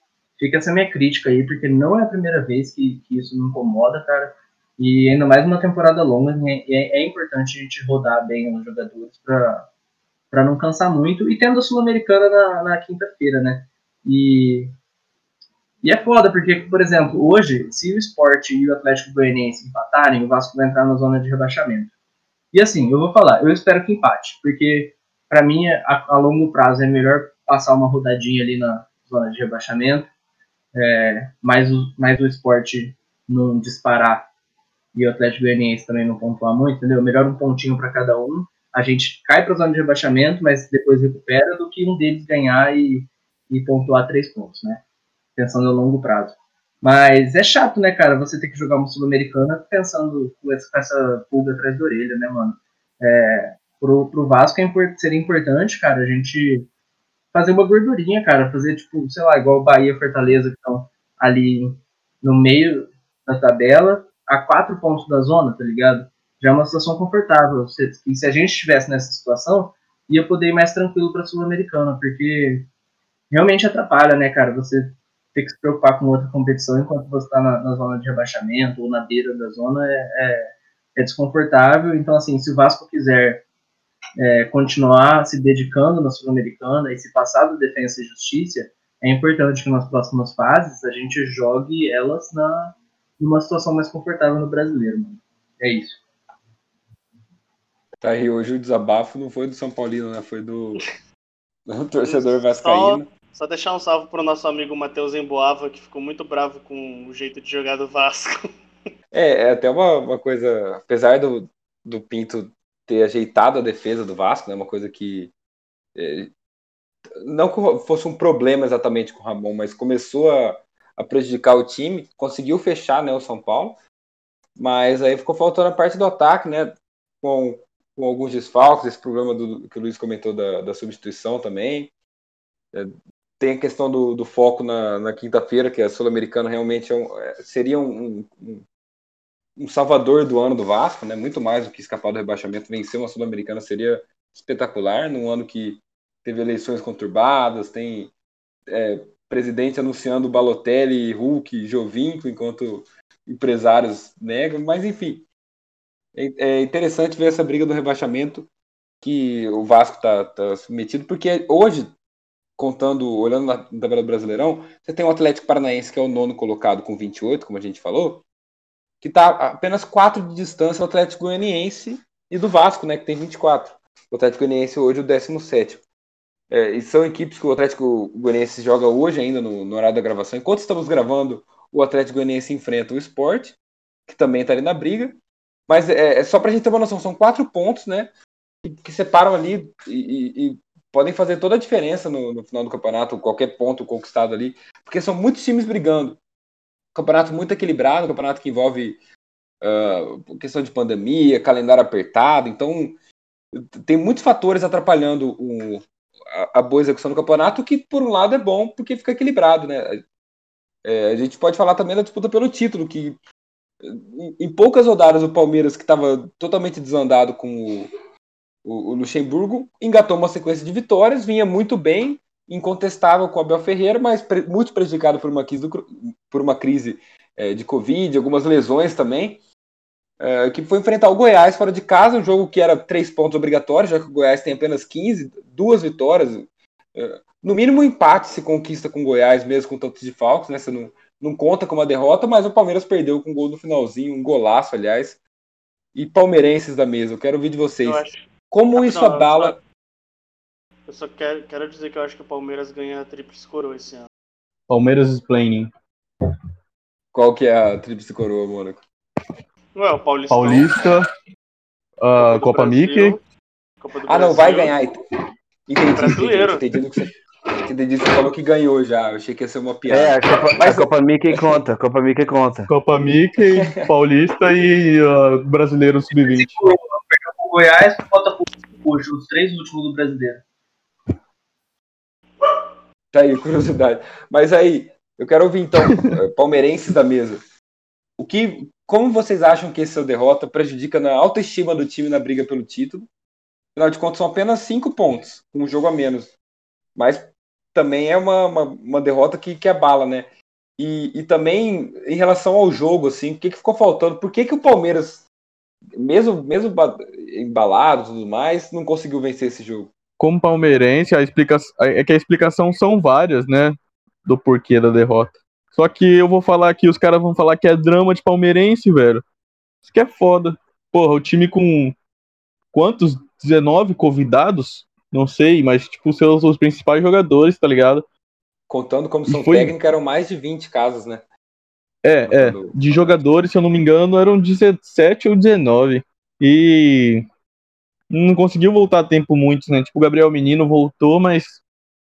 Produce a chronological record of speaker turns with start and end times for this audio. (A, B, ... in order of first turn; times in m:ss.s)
0:00.4-0:09.7 A
0:10.3-0:14.7 A
0:15.8-0:21.9 A
0:22.5-0:30.1 A
0:30.7-0:34.3 A
0:34.9-0:44.8 A
0:45.4-0:56.7 A
0:57.3-1:12.7 A
1:13.3-1:23.4 A
1:24.2-1:36.0 A
1:38.0-1:40.8 B
1:41.7-1:43.1 B
1:42.0-1:48.4 C
1:49.1-1:55.3 B
1:55.9-1:56.3 B
1:57.2-2:03.8 B
2:04.6-2:11.9 B
2:12.7-2:18.6 B
2:19.6-2:28.1 B
2:28.7-2:35.2 B
2:36.1-2:38.5 B
2:39.0-2:41.9 B
2:42.6-2:48.2 B
2:49.0-2:55.8 B
2:56.5-3:05.2 B
3:05.7-3:08.1 B
3:08.6-3:16.2 B
3:16.9-3:19.0 B
3:19.6-3:23.0 B
3:23.5-3:30.0 B
3:30.8-3:33.2 B
3:33.8-3:37.9 B
3:38.6-3:49.4 B
3:50.2-4:05.2 B
4:05.9-4:09.6 B
4:07.8-4:09.6 C
4:10.9-4:14.1 C
4:14.7-4:15.7 D
4:17.1-4:18.8 B
4:19.7-4:20.6 C
4:20.3-4:21.1 D
4:22.0-4:23.2 D
4:22.2-4:23.2 C
4:23.8-4:24.7 C
4:24.1-4:25.0 B
4:25.7-4:27.1 B
4:25.9-4:26.6 C
4:27.7-4:31.6 B
4:29.9-4:32.7 E
4:32.7-4:36.7 D
4:33.5-4:33.9 B
4:36.2-4:40.4 A
4:43.1-4:47.4 B
4:48.2-4:53.1 B
4:53.7-4:56.3 B
4:56.9-5:05.2 B
5:06.0-5:09.9 B
5:10.2-5:19.2 D
5:19.8-5:21.9 D
5:22.7-5:28.0 D
5:28.7-5:31.2 B
5:29.3-5:29.7 D
5:32.0-5:37.2 D
5:32.2-5:33.2 B
5:38.1-5:41.6 D